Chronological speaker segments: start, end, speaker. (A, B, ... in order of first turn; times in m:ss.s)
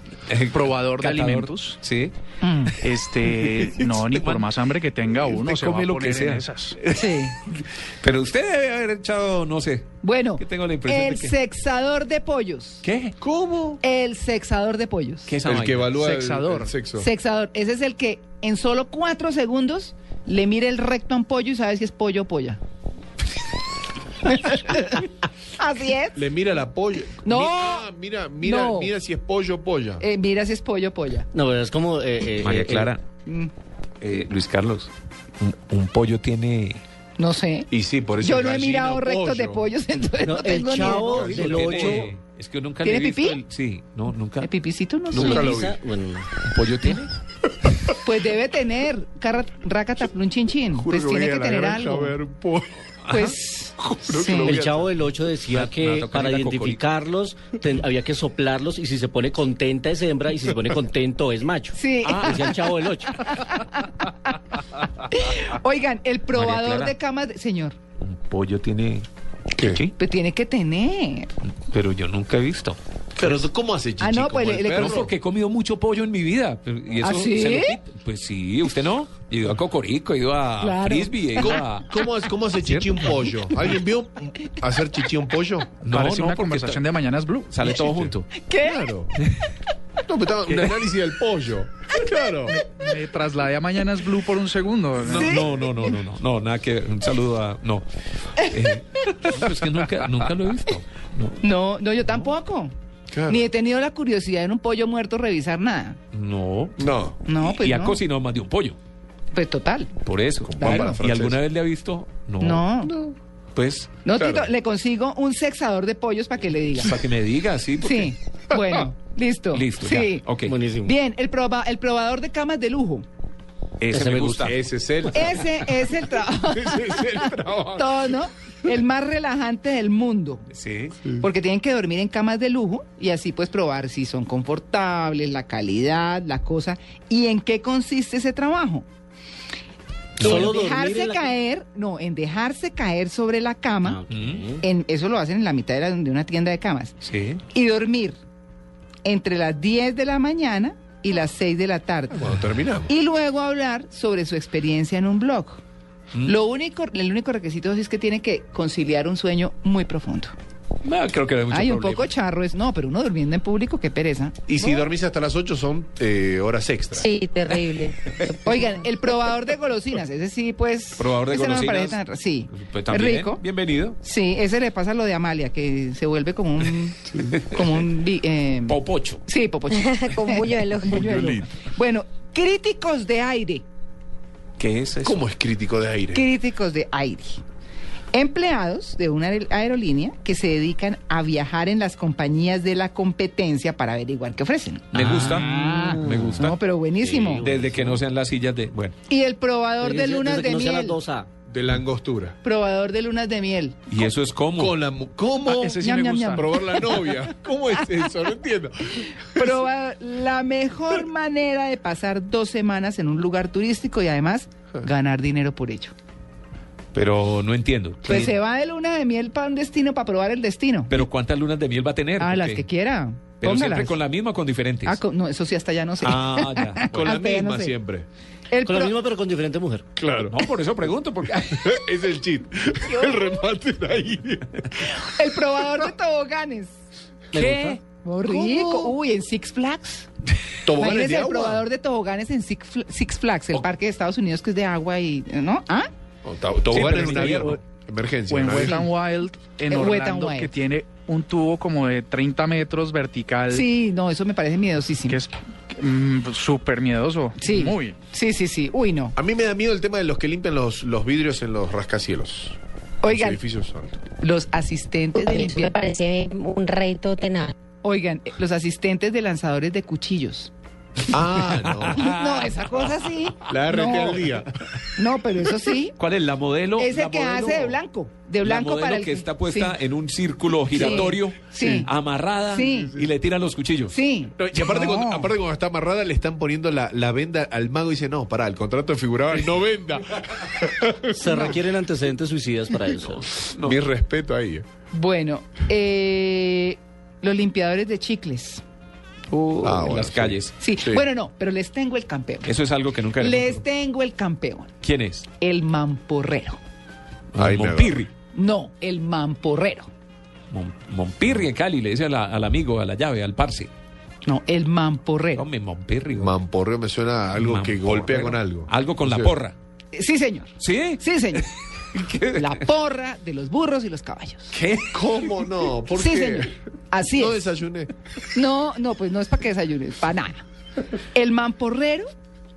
0:00.3-0:02.1 A
0:00.5-0:01.8 B
0:02.4-0:02.7 C
0:02.8-0:06.8 B
0:03.5-0:11.4 A
0:06.9-0:07.4 C
0:10.0-0:12.8 C
0:12.8-0:13.2 A
0:13.2-0:13.8 D
0:13.8-0:15.3 C
0:15.3-0:15.9 A
0:15.4-0:17.1 D
0:16.0-0:16.7 B
0:17.0-0:22.6 C
0:24.2-0:26.2 C
0:26.2-0:30.0 D
0:27.2-0:27.9 C
0:28.4-0:28.9 C
0:30.0-0:31.3 C
0:31.3-0:32.9 E
0:32.4-0:33.0 A
0:33.3-0:33.5 C
0:34.0-0:36.8 A
0:37.2-0:37.7 C
0:37.7-0:39.7 D
0:38.2-0:42.0 C
0:40.2-0:42.1 E
0:41.1-0:42.0 D
0:41.2-0:44.5 A
0:42.8-0:43.4 C
0:44.4-0:45.5 C
0:45.1-0:45.8 D
0:45.1-0:46.3 E
0:46.4-0:47.1 A
0:47.9-0:52.2 C
0:50.7-0:52.8 D
0:53.0-0:53.4 A
0:53.1-0:54.5 C
0:53.8-0:54.9 D
0:54.4-1:03.2 E
0:55.4-0:56.9 A
1:01.7-1:04.5 C
1:05.0-1:07.8 C
1:06.3-1:07.0 A
1:08.0-1:09.9 A
1:10.0-1:11.3 C
1:11.7-1:13.4 A
1:13.2-1:15.1 D
1:14.0-1:15.1 C
1:14.7-1:22.0 A
1:17.0-1:17.8 C
1:20.6-1:21.6 C
1:21.4-1:25.7 D
1:22.6-1:23.5 A
1:25.8-1:26.8 A
1:25.9-1:27.7 B
1:27.5-1:28.3 A
1:27.7-1:29.1 D
1:28.3-1:28.9 C
1:30.0-1:32.6 D
1:32.5-1:35.4 B
1:35.0-1:35.9 D
1:35.1-1:36.0 C
1:35.1-1:41.4 A
1:38.4-1:39.4 C
1:41.4-1:42.7 C
1:43.1-1:43.4 D
1:43.3-1:46.0 C
1:46.1-1:48.8 A
1:46.8-1:47.2 D
1:47.3-1:48.0 C
1:49.3-1:49.9 C
1:50.0-1:52.6 A
1:50.5-1:51.4 D
1:50.6-1:51.0 C
1:52.4-1:53.0 C
1:52.8-1:53.1 D
1:53.6-1:54.0 A
1:54.0-1:57.0 C
1:54.2-1:54.5 D
1:56.8-1:58.1 A
1:57.8-2:00.2 C
1:59.5-2:00.6 A
2:00.5-2:00.9 E
2:00.8-2:03.0 C
2:03.8-2:04.6 A
2:03.9-2:04.5 E
2:04.4-2:05.7 D
2:05.1-2:10.5 C
2:06.5-2:08.2 D
2:10.5-2:11.0 A
2:11.1-2:18.9 C
2:20.2-2:21.3 E
2:20.2-2:24.0 C
2:23.8-2:24.6 E
2:24.1-2:24.5 A
2:24.6-2:27.0 C
2:27.0-2:27.4 A
2:27.5-2:28.2 C
2:29.0-2:32.3 C
2:32.1-2:32.9 D
2:32.9-2:35.6 C
2:36.2-2:40.3 C
2:40.8-2:42.1 A
2:41.5-2:44.9 C
2:44.5-2:47.1 D
2:46.9-2:48.9 F
2:48.1-2:48.6 A
2:48.4-2:53.4 C
2:51.0-2:52.0 A
2:52.5-2:54.0 A
2:54.0-3:03.6 C
2:57.3-2:57.8 A
2:58.7-2:59.2 A
2:59.7-3:01.3 F
3:00.9-3:01.5 D
3:04.6-3:05.2 A
3:05.0-3:06.3 D
3:06.1-3:07.4 C
3:08.1-3:17.4 C
3:14.9-3:16.6 A
3:15.0-3:16.3 E
3:17.0-3:18.0 E
3:17.4-3:19.0 A
3:19.1-3:21.0 C
3:19.8-3:21.3 E
3:21.5-3:22.4 D
3:22.4-3:23.8 C
3:23.9-3:24.8 A
3:24.6-3:29.6 D
3:25.5-3:26.5 B
3:25.8-3:27.1 C
3:29.1-3:35.9 C
3:36.9-3:38.4 A
3:38.0-3:41.1 C
3:40.9-3:42.6 A
3:42.2-3:44.0 C
3:43.4-3:45.0 A
3:44.8-3:47.8 C
3:46.0-3:47.0 A
3:46.9-3:48.1 D
3:48.5-3:49.0 C
3:48.6-3:49.9 E
3:50.0-3:50.4 D
3:50.2-3:51.7 A
3:51.5-3:54.8 D
3:52.8-3:53.5 C
3:54.9-3:56.8 C
3:57.3-4:00.1 C
3:57.3-3:57.8 E
3:58.3-3:59.0 D
4:00.6-4:01.7 D
4:00.7-4:05.9 C
4:06.2-4:08.8 D
4:06.7-4:07.6 A
4:07.1-4:07.5 B
4:08.3-4:13.7 B
4:08.6-4:08.9 C
4:09.7-4:10.5 C
4:13.5-4:15.2 C
4:15.1-4:18.0 B
4:17.4-4:19.2 C
4:19.2-4:23.9 D
4:23.0-4:23.4 C
4:24.2-4:25.8 C
4:25.2-4:27.5 F
4:27.8-4:30.5 C
4:31.1-4:32.1 D
4:31.4-4:32.9 A
4:32.0-4:34.3 C
4:33.5-4:34.9 D
4:35.0-4:36.0 C
4:36.0-4:37.8 A
4:36.8-4:39.8 C
4:38.4-4:44.0 A
4:40.7-4:41.9 C
4:40.7-4:41.1 D
4:42.5-4:43.0 C
4:43.9-4:44.8 C
4:44.4-4:51.5 D
4:51.1-4:53.3 E
4:53.3-4:53.8 A
4:53.6-4:54.6 D
4:54.9-4:58.6 C
4:59.3-5:00.6 A
4:59.6-5:01.0 D
5:00.6-5:02.6 C
5:02.4-5:03.6 A
5:03.2-5:04.7 C
5:04.8-5:05.3 A
5:05.4-5:06.6 C
5:07.3-5:08.1 A
5:07.4-5:08.0 D
5:08.3-5:09.9 C
5:10.5-5:13.7 A
5:14.3-5:15.4 C
5:15.4-5:16.4 A
5:16.2-5:19.3 D
5:17.4-5:19.6 A
5:19.9-5:21.5 C
5:20.6-5:22.6 A
5:22.4-5:24.6 C
5:24.5-5:25.1 A
5:24.9-5:26.5 D
5:25.9-5:27.4 C
5:27.1-5:27.9 D
5:28.3-5:30.4 C
5:31.1-5:32.1 C